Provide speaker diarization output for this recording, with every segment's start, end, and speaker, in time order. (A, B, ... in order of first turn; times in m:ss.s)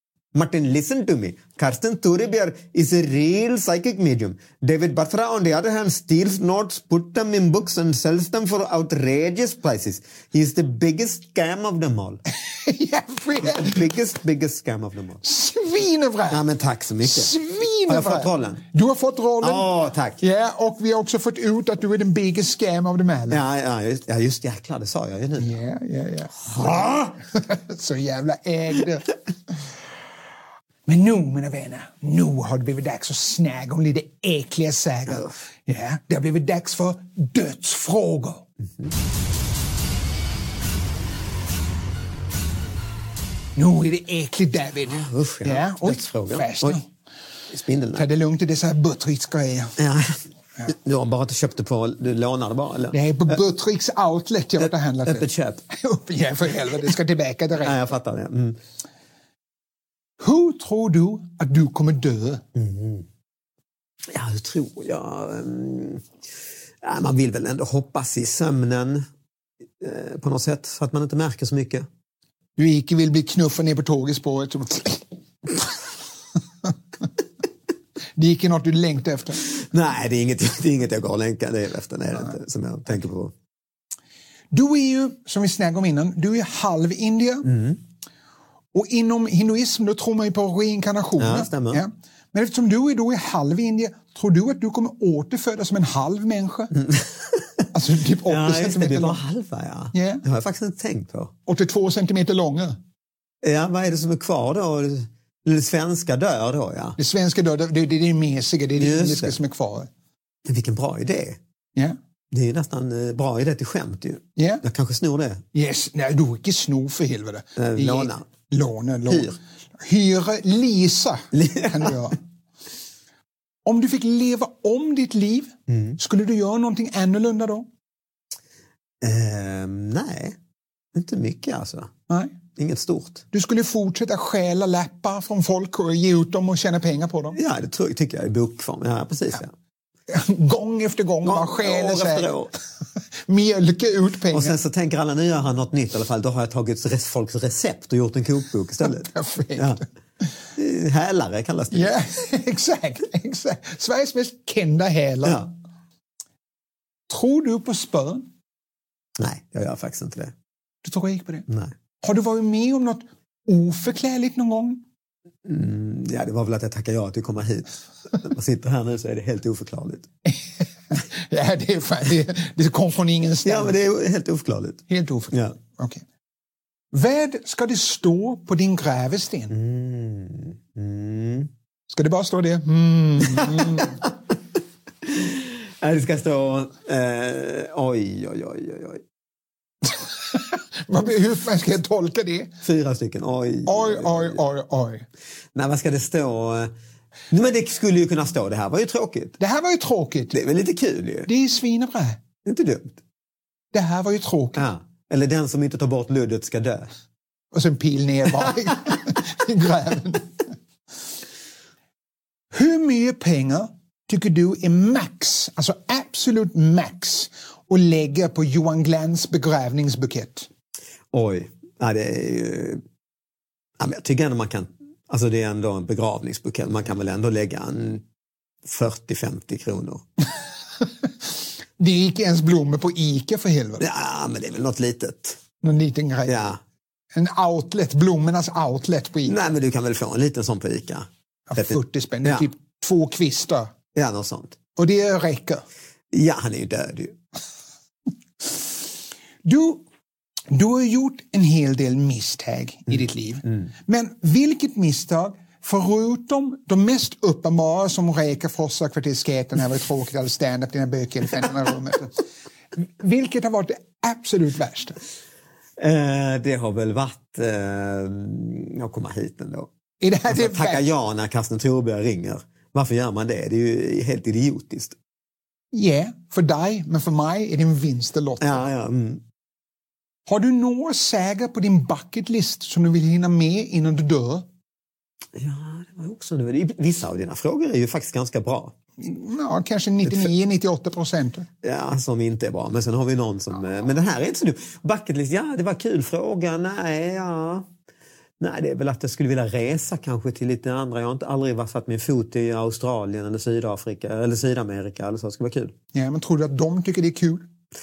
0:00.3-0:12.2 A
0:12.5-0:13.8 B
0:13.4-0:15.2 A
0:15.2-0:16.4 B
0:16.3-0:17.3 A
0:17.0-0:23.4 B
0:17.9-0:18.6 A
0:19.4-0:20.2 A
0:23.3-0:25.5 A
0:25.4-0:29.1 B
0:26.5-0:26.9 A
0:30.9-0:38.5 B
0:35.1-0:35.4 A
0:43.6-0:46.9 B
0:44.9-0:46.8 A
0:47.5-0:48.1 A
0:48.0-0:49.8 B
0:49.8-0:53.4 A
0:52.9-0:57.8 B
0:54.6-0:55.6 A
0:57.6-0:58.6 A
1:00.2-1:02.4 B
1:02.6-1:03.1 A
1:04.1-1:06.1 A
1:06.8-1:09.1 A
1:09.8-1:11.9 A
1:12.6-1:15.7 B
1:18.2-1:19.4 B
1:19.4-1:23.3 A
1:24.5-1:27.5 B
1:27.5-1:27.8 A
1:28.7-1:36.8 B
1:31.2-1:31.8 A
1:36.8-1:37.7 A
1:37.7-1:39.2 B
1:38.3-1:41.3 A
1:39.9-1:40.2 B
1:41.5-1:42.8 B
1:43.4-1:47.0 A
1:47.0-1:49.9 B
1:48.8-1:49.4 A
1:50.4-1:51.4 A
1:52.3-1:55.4 A
1:54.4-1:54.6 B
1:55.5-2:02.2 B
1:57.6-1:58.3 A
1:59.1-1:59.4 A
2:01.3-2:02.0 A
2:03.6-2:07.7 B
2:05.7-2:06.0 A
2:09.0-2:10.4 A
2:10.9-2:11.9 A
2:12.1-2:12.3 B
2:12.6-2:13.2 A
2:13.3-2:17.4 B
2:17.3-2:19.5 A
2:20.1-2:22.3 B
2:21.2-2:22.5 A
2:23.3-2:24.6 B
2:24.3-2:29.8 A
2:29.0-2:29.8 B
2:30.6-2:32.0 A
2:31.7-2:35.5 B
2:35.2-2:35.5 A
2:37.1-2:38.3 B
2:39.2-2:40.3 A
2:40.8-2:41.5 B
2:41.5-2:41.7 A
2:42.0-2:44.8 B
2:45.4-2:50.1 A
2:50.3-2:53.8 B
2:53.4-2:55.6 A
2:54.9-2:56.0 B
2:56.9-2:59.6 B
2:59.5-3:01.5 A
3:01.9-3:04.0 B
3:03.2-3:04.2 A
3:05.0-3:09.0 A
3:09.8-3:12.5 B
3:12.6-3:14.4 A
3:13.7-3:15.0 B
3:15.6-3:16.7 A
3:17.3-3:19.4 A
3:19.4-3:20.4 B
3:20.3-3:21.3 A
3:21.3-3:22.2 B
3:22.4-3:23.0 A
3:23.7-3:24.6 B
3:24.6-3:26.9 A
3:27.5-3:30.5 B
3:32.5-3:40.5 B
3:41.1-3:42.8 A
3:43.8-3:48.0 A
3:48.6-3:50.0 A
3:51.8-3:53.8 B
3:53.8-3:55.4 A
3:55.6-3:56.4 B
3:56.2-3:56.6 A
3:57.2-3:59.4 B
3:59.3-4:02.5 A
4:01.5-4:03.7 B
4:03.9-4:04.6 A
4:04.8-4:05.6 B
4:06.1-4:07.2 A
4:09.4-4:09.8 B
4:10.5-4:22.2 B
4:22.8-4:25.0 B
4:25.8-4:29.7 A
4:30.0-4:30.8 B
4:30.3-4:35.0 A
4:35.7-4:38.6 B
4:38.4-4:39.2 A
4:40.3-4:44.5 B
4:45.4-4:48.8 A
4:49.0-4:51.5 B
4:51.6-4:57.7 A
4:58.4-5:05.7 A
5:05.9-5:07.5 B